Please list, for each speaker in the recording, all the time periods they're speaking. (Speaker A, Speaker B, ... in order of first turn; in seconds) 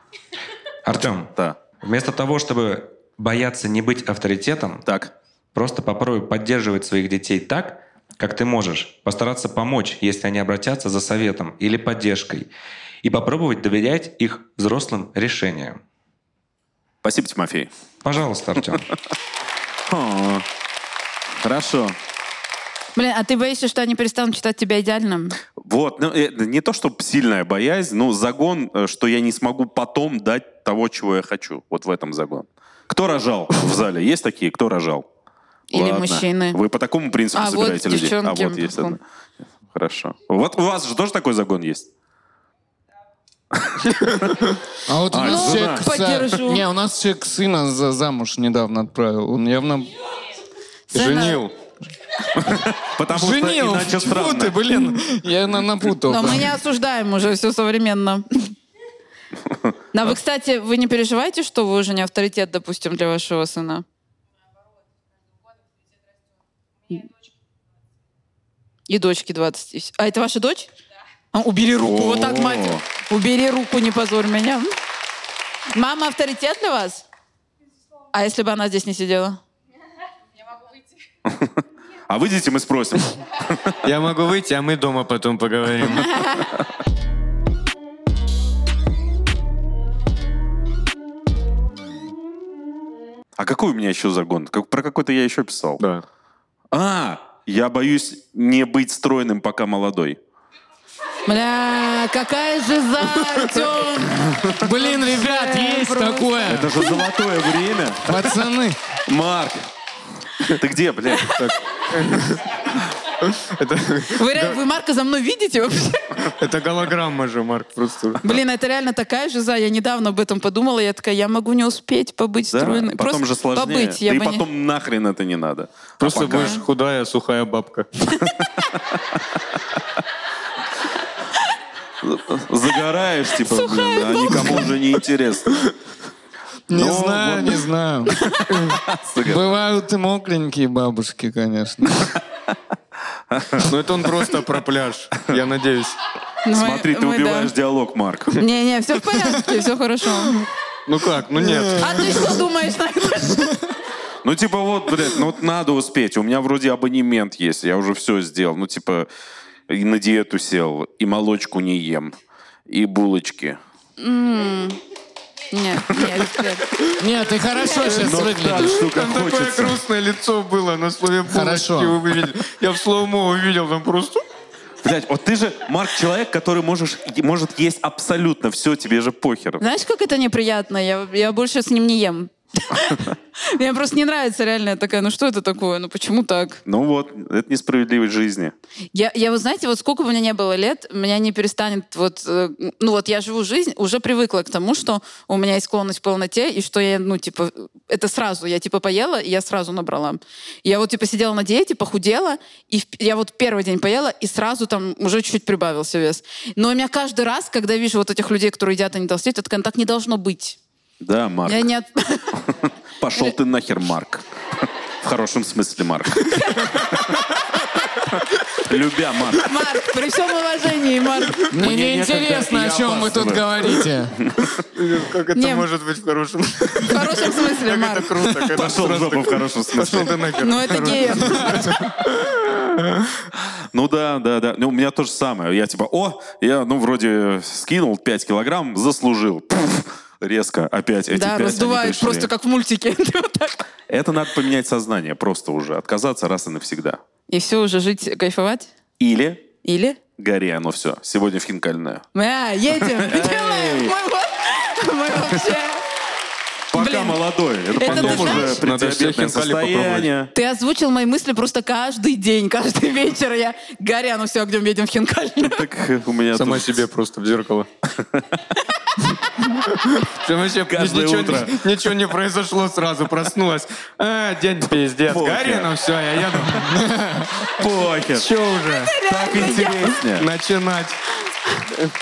Speaker A: 0.8-4.8, 5.5-12.5, 13.0-15.8, 18.0-18.9
Speaker B: 4.8-5.1, 17.0-17.7, 19.9-20.4, 21.4-22.0, 25.6-35.0, 35.7-39.0, 39.7-41.9, 43.5-43.9, 45.1-45.9, 52.4-54.6, 71.8-72.8, 81.2-81.5, 82.1-83.8, 93.4-95.8, 96.7-100.2, 106.5-108.3, 109.0-109.7, 110.4-111.4, 122.5-126.6, 132.0-135.7, 136.7-137.7, 138.6-139.5, 143.3-143.7, 146.5-148.4, 154.2-159.1, 159.7-162.1, 162.7-163.6, 167.8-169.8, 174.8-179.6, 186.7-188.5, 211.0-211.7, 213.0-217.0, 218.6-219.5, 221.6-224.6, 228.5-230.2, 233.7-242.3, 243.9-247.0, 249.0-249.4, 250.2-252.0, 252.7-253.9, 256.7-260.3, 265.4-266.8, 267.9-268.4, 270.6-271.6, 275.0-276.6, 277.4-280.3
Speaker C: 22.9-25.4, 35.7-36.6, 37.3-39.0, 45.2-46.6, 50.9-51.5, 56.1-58.5, 59.9-63.8, 68.9-70.7, 71.3-74.7, 75.7-77.0, 78.1-79.4, 86.0-86.5, 101.3-106.9, 114.1-116.2, 118.2-124.4, 133.4-134.7, 138.1-138.4, 146.4-147.5, 148.4-150.4, 151.7-153.6, 164.0-164.8, 165.5-166.9, 179.6-186.6, 188.9-210.6, 211.4-212.4, 216.3-216.7, 219.4-221.5, 225.3-225.7, 226.8-228.2, 230.4-231.7, 241.1-243.6, 247.3-248.7, 249.6-250.0, 252.1-255.8, 256.7-257.2, 257.7-258.6, 260.3-265.6, 278.9-279.9
Speaker D: 44.9-49.9, 53.1-56.5, 104.6-106.8, 108.0-108.8, 136.7-138.2, 139.2-142.1, 167.0-168.8, 171.3-172.0, 221.5-224.2, 276.7-277.3
Speaker E: 50.9-51.5, 83.8-86.2, 95.8-96.0, 111.3-112.4, 113.2-114.6, 116.4-118.2, 126.0-127.9, 143.6-146.0, 150.8-152.3, 168.7-174.2, 224.7-233.2, 257.8-260.1, 266.3-267.7, 270.0-276.8, 278.1-278.9, 280.1-281.0